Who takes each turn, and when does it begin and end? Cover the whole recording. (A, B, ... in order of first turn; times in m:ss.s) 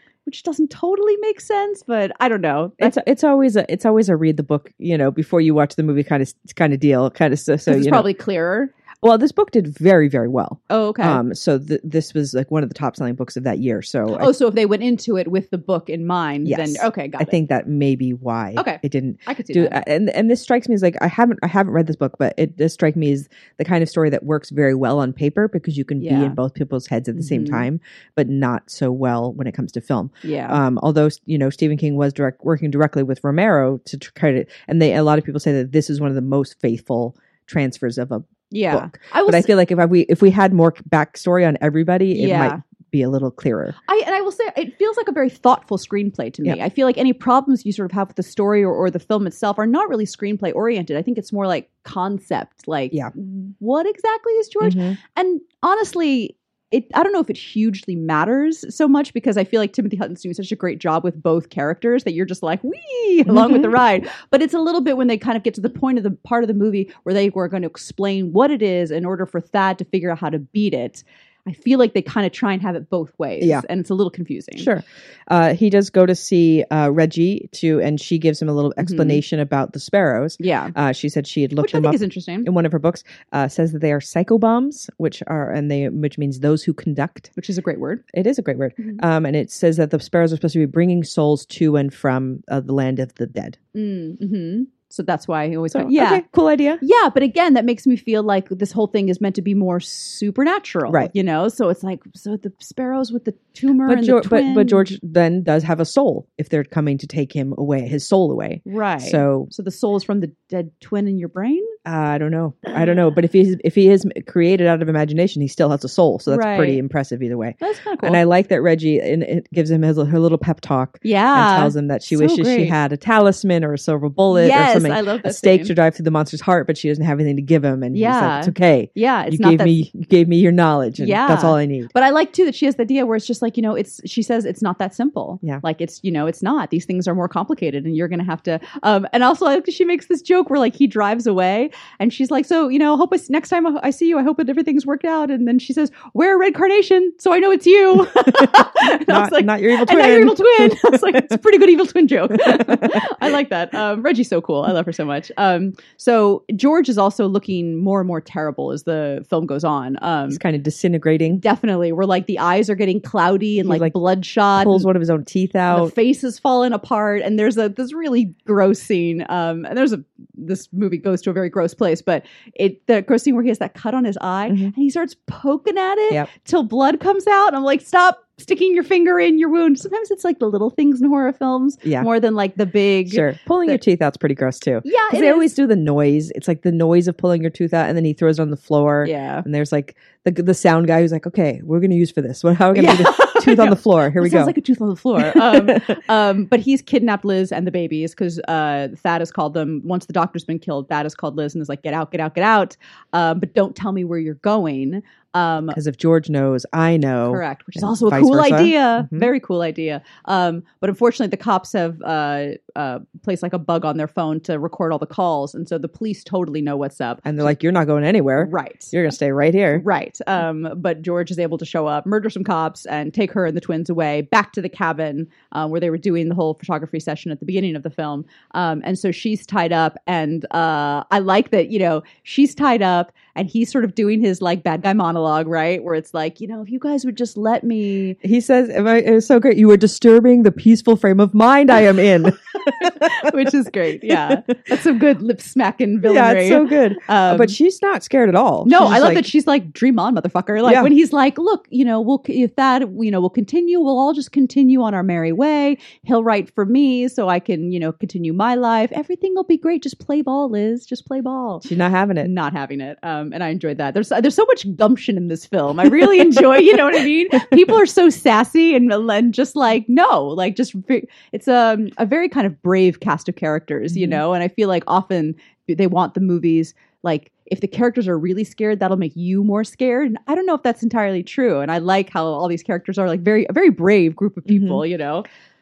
0:00.2-0:02.9 A
0:02.8-0:08.1 B
0:07.7-0:08.7 A
0:09.0-0:14.3 B
0:10.7-0:11.2 A
0:14.1-0:17.4 A
0:16.4-0:43.8 B
0:18.6-0:19.8 A
0:26.0-0:26.4 A
0:27.1-0:27.6 A
0:30.2-0:30.6 A
0:38.5-0:39.5 A
0:42.1-0:42.6 A
0:43.8-1:14.7 A
0:54.6-0:55.0 B
1:03.3-1:03.7 B
1:14.6-1:27.3 B
1:18.8-1:19.2 A
1:20.4-1:20.7 A
1:21.6-1:22.5 A
1:27.4-1:28.0 A
1:28.1-1:33.6 B
1:33.7-1:36.2 A
1:35.7-1:36.8 B
1:36.8-1:44.8 A
1:43.8-1:49.5 B
1:48.6-1:51.7 A
1:51.8-2:11.9 B
1:56.3-1:56.8 A
1:57.6-1:58.2 A
2:01.0-2:02.7 A
2:04.3-2:05.7 A
2:07.9-2:09.8 A
2:11.0-2:40.4 A
2:28.4-2:31.3 B
2:32.5-2:33.0 B
2:40.3-2:41.4 B
2:41.4-2:44.9 A
2:43.6-2:43.9 B
2:44.5-2:45.9 B
2:45.7-3:03.8 A
3:03.1-3:14.5 B
3:04.8-3:05.5 A
3:09.0-3:09.4 A
3:12.7-3:25.8 A
3:15.2-3:16.0 B
3:25.7-3:29.3 B
3:27.2-3:37.5 A
3:37.2-3:39.8 B
3:38.4-3:38.9 A
3:39.7-3:58.2 A
3:58.2-4:03.3 B
4:02.6-4:07.6 A
4:04.3-4:04.6 B
4:06.0-4:09.3 B
4:08.6-4:21.6 A
4:10.6-4:10.9 B
4:21.6-4:22.3 B
4:22.2-4:45.2 A
4:33.9-4:34.2 B
4:44.5-4:44.8 B